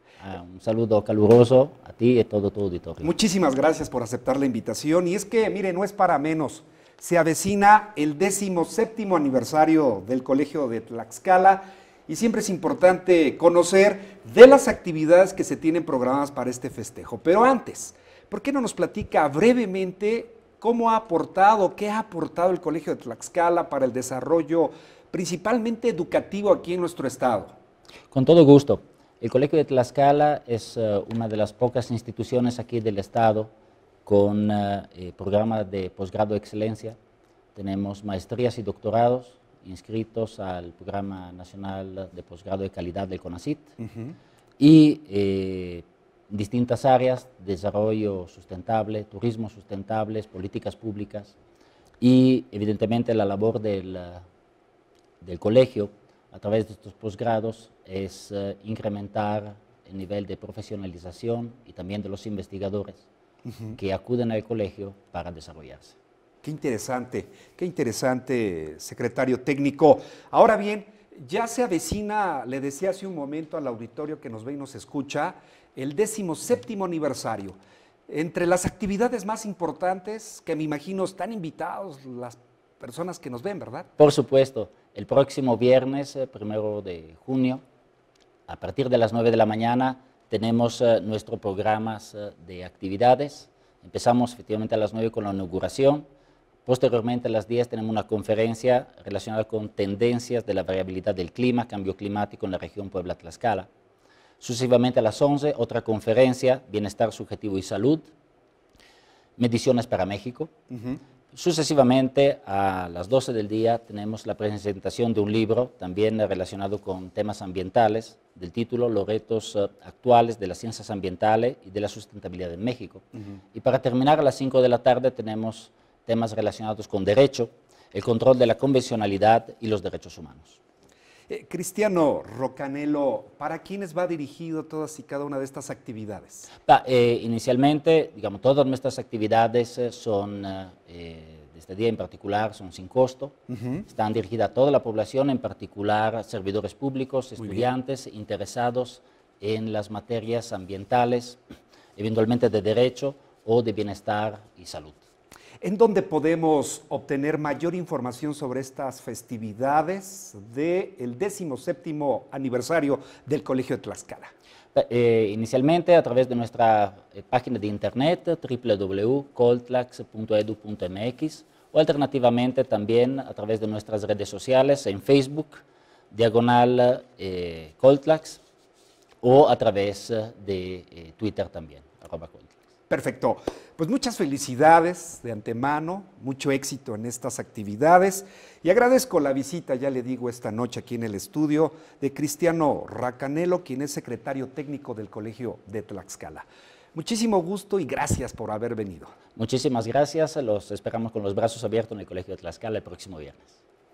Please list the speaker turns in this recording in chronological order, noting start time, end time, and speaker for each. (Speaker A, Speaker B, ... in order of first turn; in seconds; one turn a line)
Speaker A: 0.2-3.1
Speaker B: 3.0-27.6
Speaker A: 28.1-33.5
Speaker A: 34.1-37.0
Speaker A: 37.5-43.7
Speaker B: 43.8-44.1
Speaker A: 44.6-51.4
Speaker A: 52.0-54.2
Speaker A: 55.2-63.0
Speaker A: 63.7-66.0
Speaker B: 66.4-77.6
Speaker B: 78.1-83.9
Speaker A: 84.0-87.6
Speaker A: 88.5-96.0
Speaker A: 96.7-103.7
Speaker A: 104.4-108.1
Speaker A: 109.4-110.5
Speaker B: 110.7-111.0
Speaker A: 111.3-130.6
Speaker B: 131.3-136.5
Speaker A: 136.7-151.4
Speaker B: 143.5-143.8
Speaker A: 152.0-155.0
Speaker B: 155.6-164.3
Speaker A: 164.7-178.4
Speaker A: 179.2-182.5
Speaker B: 182.9-199.1
Speaker A: 199.4-203.5